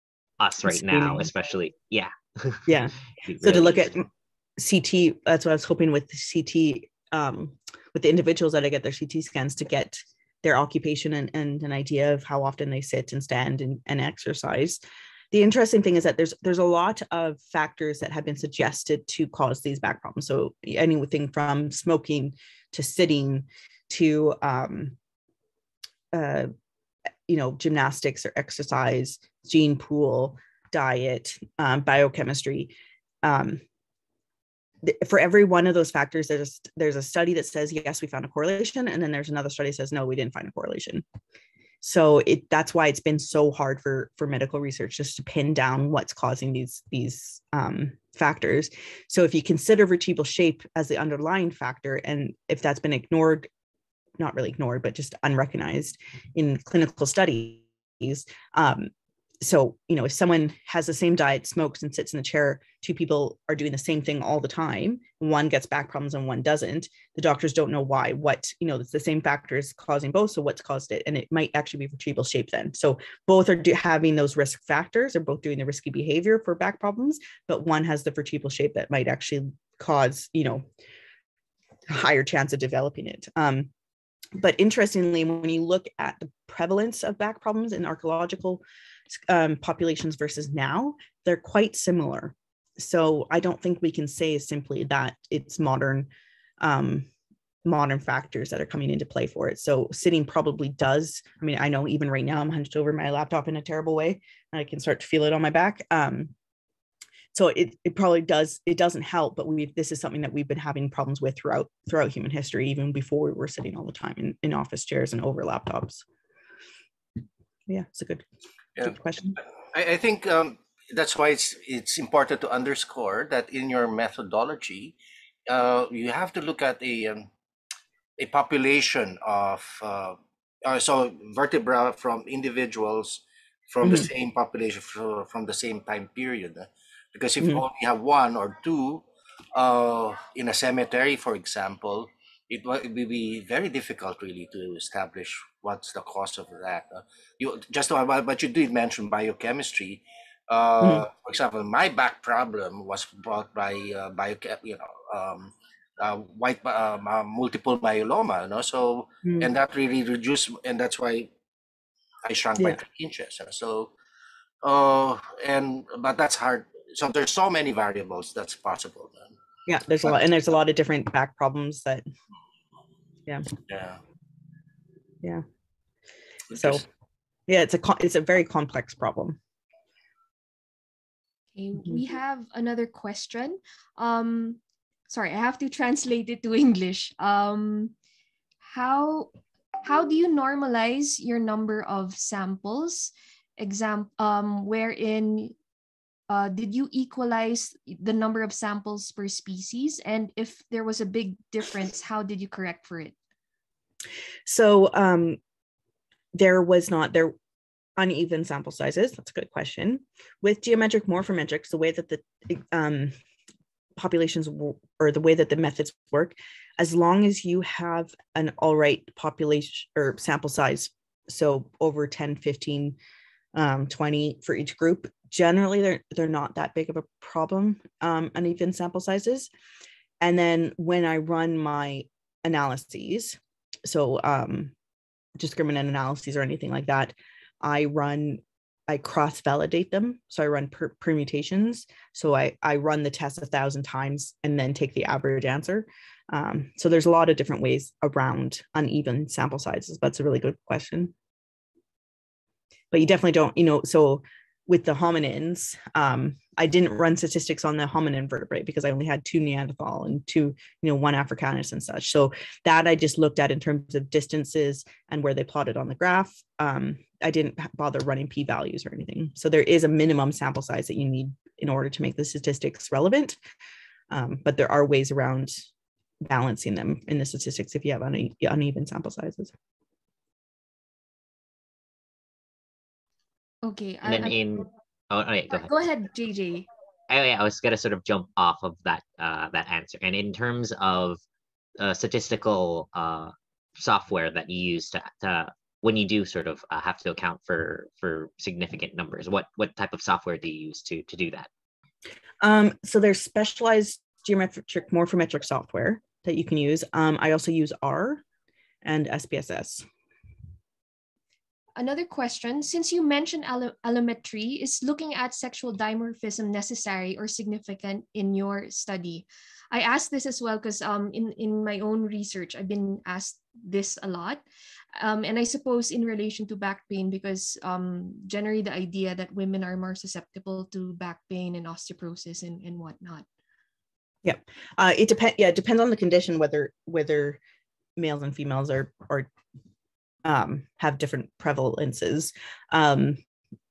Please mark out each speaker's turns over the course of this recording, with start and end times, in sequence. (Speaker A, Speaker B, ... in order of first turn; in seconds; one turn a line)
Speaker A: 0.4-3.9
Speaker B: 0.7-1.3
Speaker B: 2.7-4.0
Speaker B: 4.6-14.8
Speaker B: 15.3-25.0
Speaker B: 26.1-26.5
Speaker B: 27.3-32.7
Speaker B: 33.2-33.6
Speaker B: 34.8-41.0
Speaker B: 41.8-53.5
Speaker B: 54.2-80.7
Speaker B: 81.9-83.7
Speaker B: 84.4-96.1
Speaker B: 96.6-97.1
Speaker B: 97.7-106.3
Speaker B: 107.3-116.0
Speaker B: 117.7-118.3
Speaker B: 118.8-119.4
Speaker C: 119.7-127.3
Speaker C: 128.2-161.3
Speaker C: 162.2-163.9
Speaker C: 164.6-169.3
Speaker B: 169.7-172.1
Speaker C: 173.7-174.0
Speaker C: 176.5-176.8
Speaker B: 176.5-176.8
Speaker B: 177.5-179.4
Speaker D: 181.6-187.9
Speaker D: 188.6-189.3
Speaker D: 189.8-195.6
Speaker D: 196.3-203.2
Speaker B: 204.5-205.4
Speaker B: 206.3-207.3
Speaker B: 208.0-213.1
Speaker B: 214.0-223.0
Speaker B: 223.6-229.5
Speaker B: 230.2-234.7
Speaker B: 235.4-251.1
Speaker B: 252.9-273.4
Speaker B: 274.1-275.6
Speaker B: 276.2-279.5
Speaker D: 283.6-284.4
Speaker A: 284.0-285.7
Speaker D: 285.5-286.7
Speaker A: 287.1-291.2
Speaker A: 291.8-301.5
Speaker B: 302.4-308.2
Speaker B: 308.8-309.9
Speaker D: 311.8-324.4
Speaker D: 324.9-333.2
Speaker B: 334.2-337.4
Speaker B: 338.0-339.3
Speaker B: 340.2-343.2